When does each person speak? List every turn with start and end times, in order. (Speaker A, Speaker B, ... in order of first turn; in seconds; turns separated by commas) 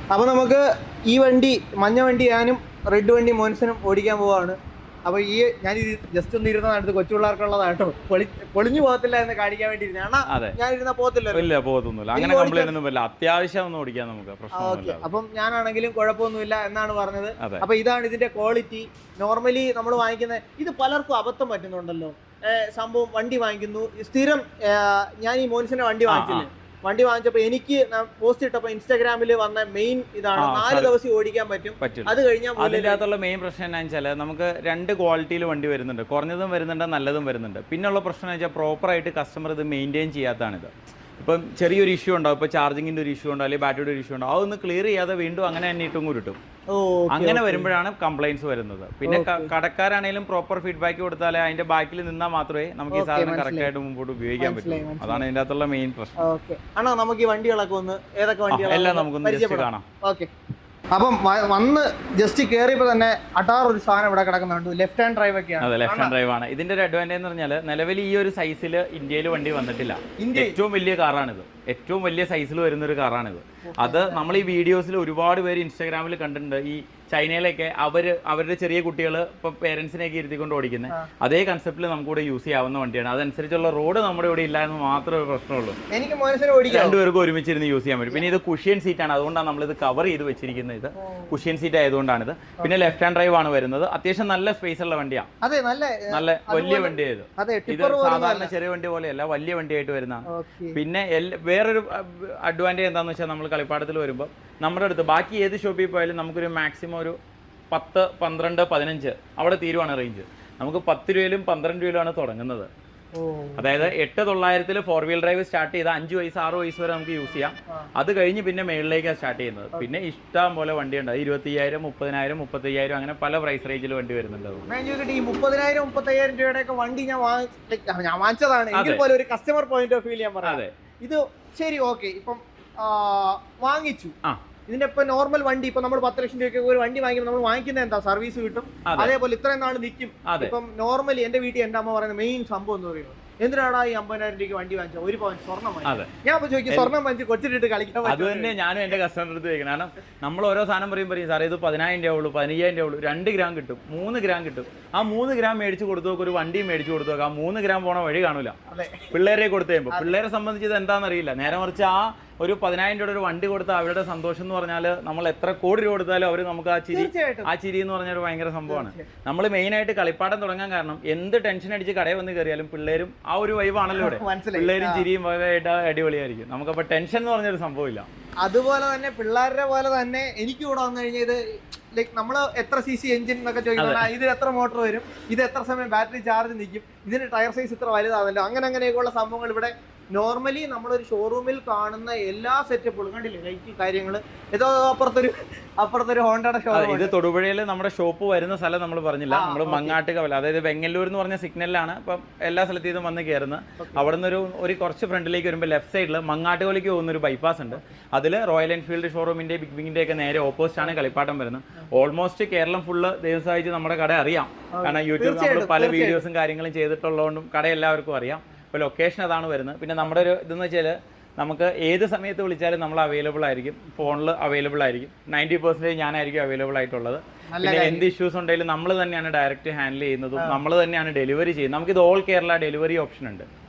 Speaker A: 0.1-11.4, Speaker B: 10.3-10.6, Speaker B: 11.3-15.1, Speaker A: 12.1-12.7, Speaker A: 14.6-33.0, Speaker B: 26.1-26.5, Speaker B: 30.4-30.9, Speaker B: 31.8-46.4, Speaker A: 46.7-47.7, Speaker B: 47.1-56.1, Speaker A: 49.0-49.5, Speaker A: 52.9-53.7, Speaker A: 54.4-55.2, Speaker A: 56.2-60.3, Speaker B: 58.5-59.8, Speaker A: 60.9-66.1, Speaker B: 65.6-85.8, Speaker A: 70.2-70.6, Speaker A: 73.7-74.5, Speaker A: 85.9-87.0, Speaker B: 86.7-95.3, Speaker A: 91.0-91.3, Speaker A: 95.4-98.5, Speaker B: 96.1-107.2, Speaker A: 100.3-100.8, Speaker B: 107.7-112.7, Speaker A: 113.1-113.9, Speaker B: 113.6-124.6, Speaker A: 124.7-134.1, Speaker B: 128.7-129.0, Speaker B: 130.4-130.7, Speaker A: 134.7-148.5, Speaker B: 138.8-139.1, Speaker B: 140.2-140.5, Speaker B: 145.8-146.1, Speaker B: 146.7-146.9, Speaker B: 148.0-158.5, Speaker A: 158.7-159.1, Speaker B: 159.1-178.1, Speaker A: 166.9-167.5, Speaker A: 168.7-169.1, Speaker A: 173.9-175.0, Speaker A: 178.4-181.4, Speaker A: 181.9-197.1, Speaker B: 183.8-184.1, Speaker B: 196.7-233.5, Speaker A: 199.3-200.0, Speaker A: 203.8-204.1, Speaker A: 214.7-216.2, Speaker A: 227.5-228.0